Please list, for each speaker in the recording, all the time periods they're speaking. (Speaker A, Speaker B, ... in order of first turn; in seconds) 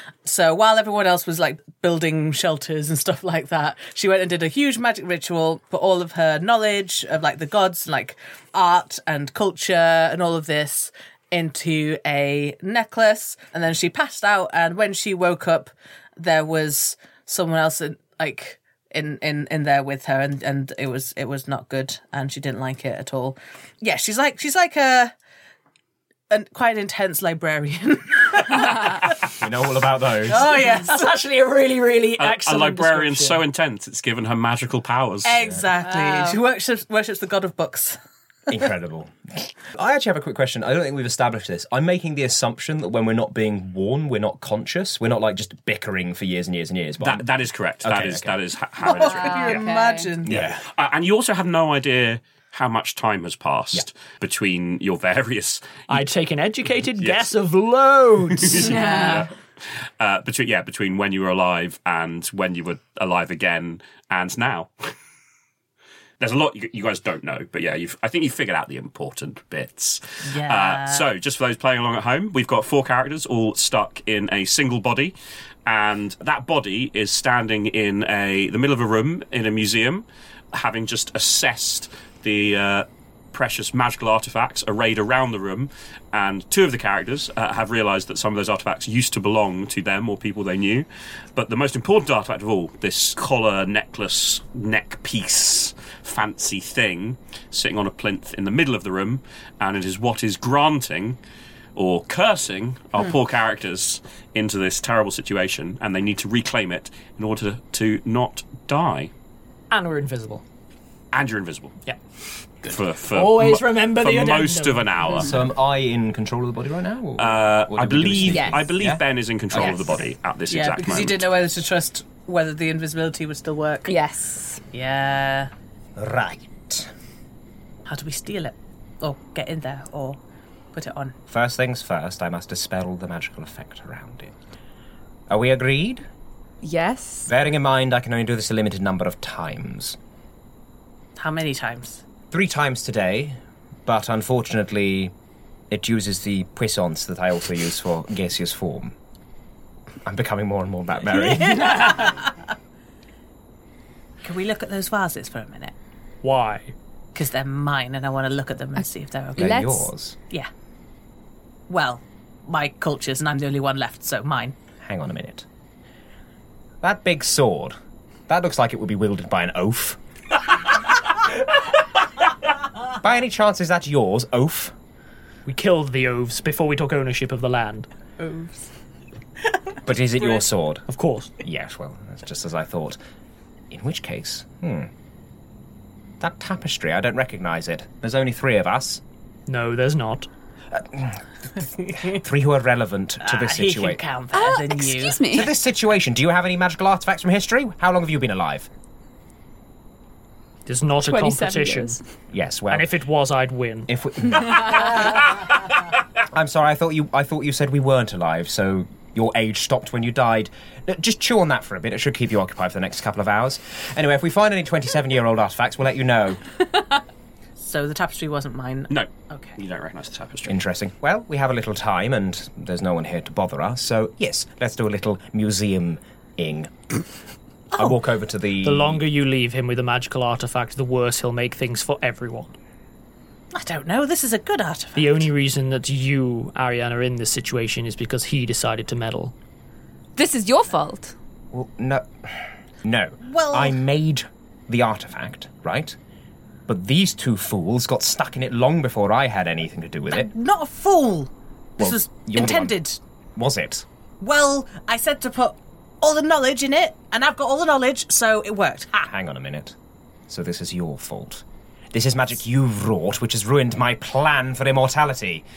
Speaker A: 0.2-25.1, 26.3-29.2, 30.3-31.0, 35.2-38.0, 48.8-50.4, 70.3-71.1, 120.5-124.0, 124.7-125.5, 127.9-130.2, 130.7-131.2, 141.2-142.0, 151.4-152.3, 154.2-155.8, 157.2-159.8, 161.7-164.6, 193.2-195.2, 217.6-219.6, 233.5-235.3, 243.2-243.8, 250.1-253.0, 254.2-259.1
Speaker B: 29.3-30.5, 38.5-47.2, 47.8-48.4, 50.2-50.6, 115.1-120.0, 126.0-126.9, 131.3-134.3, 135.3-136.1, 137.3-140.0, 142.3-145.1, 145.7-148.9, 150.0-151.9, 159.4-160.2, 164.8-165.5, 166.8-167.8, 168.3-170.0, 172.9-174.7, 179.8-180.9, 181.4-183.0, 183.7-184.9, 186.2-189.0, 190.7-194.0, 195.3-198.7, 202.3-202.9, 203.9-205.3, 206.3-216.4, 220.4-227.0, 227.7-229.0, 241.5-246.0, 246.7-250.3, 251.8-252.8, 253.4-253.8, 259.0-259.8, 260.3-265.4
Speaker C: 30.7-33.4, 55.9-59.1, 109.7-110.4, 113.1-115.2, 156.2-156.7, 175.5-177.9, 180.9-181.3, 189.5-190.3, 200.7-202.0, 202.7-203.9, 228.6-232.6, 235.0-239.3
Speaker D: 32.2-35.4, 47.0-49.6, 50.3-55.9, 57.0-57.3, 58.4-59.3, 60.0-64.7, 66.2-75.1, 75.7-101.2, 101.8-109.1, 111.1-111.8, 112.6-115.3, 117.2-121.3, 218.9-220.6
Speaker E: 35.8-36.4, 49.0-50.1, 58.7-59.2, 118.3-118.6, 123.8-124.6, 136.6-137.3, 159.4-159.8, 194.3-195.5, 201.0-202.0, 240.2-241.1